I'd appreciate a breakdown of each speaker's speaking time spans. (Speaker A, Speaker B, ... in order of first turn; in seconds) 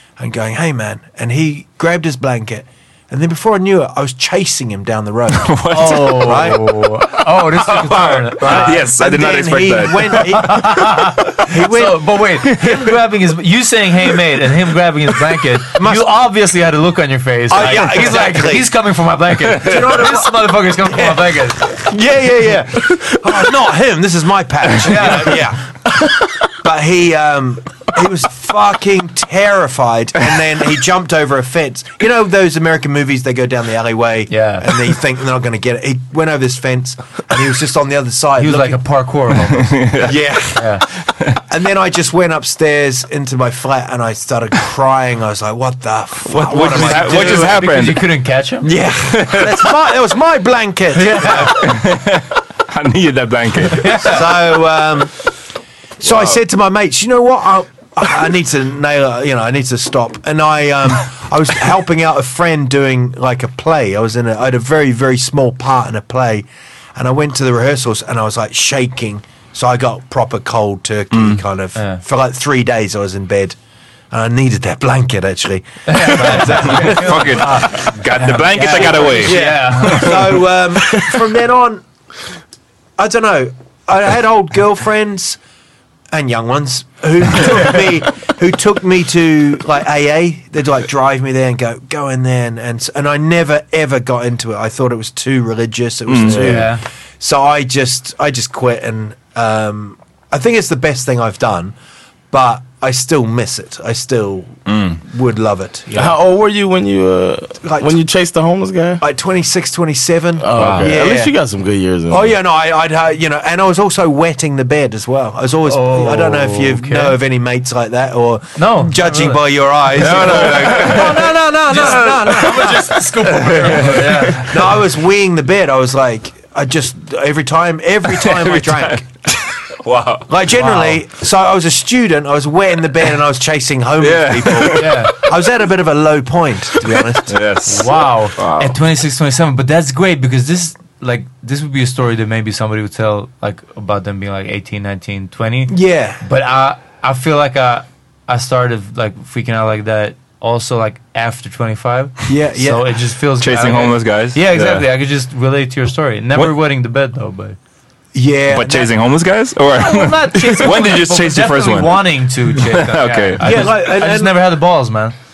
Speaker A: 0.2-6.6, 8.4-12.4, 15.7-16.1, 17.5-18.7, 19.6-25.6, 26.5-38.8, 40.0-40.8, 41.5-47.6, 48.6-51.8, 54.0-55.1, 56.0-73.5, 74.1-81.8, 83.0-85.4, 86.1-101.7, 102.3-106.2, 107.6-108.0, 109.0-111.3, 112.1-129.0, 130.3-137.3, 145.7-146.2, 152.3-152.8, 158.1-158.9, 163.4-164.4
Speaker B: 5.3-6.7, 7.7-10.2, 19.6-19.9, 39.5-40.4, 41.0-41.4, 46.3-48.1, 49.1-49.6, 51.5-54.2, 56.0-56.4, 71.1-71.4, 76.3-80.3, 96.1-96.6, 104.7-105.0, 110.6-111.0, 120.0-121.3, 122.4-122.7, 123.2-124.5, 128.1-130.3, 134.0-135.0, 137.3-138.8, 153.4-154.8, 158.5-163.7
Speaker C: 5.7-8.8, 10.2-21.8, 24.9-25.4, 34.3-34.7, 38.4-39.9, 40.5-40.8, 46.5-48.7, 50.9-51.5, 53.7-54.2, 71.8-72.0, 75.9-80.2, 96.3-96.8, 115.6-117.2, 118.5-119.4, 120.0-121.1, 121.7-124.5, 130.5-131.0, 134.7-135.1, 137.7-157.6, 159.8-165.1
Speaker D: 105.9-109.0, 110.4-112.3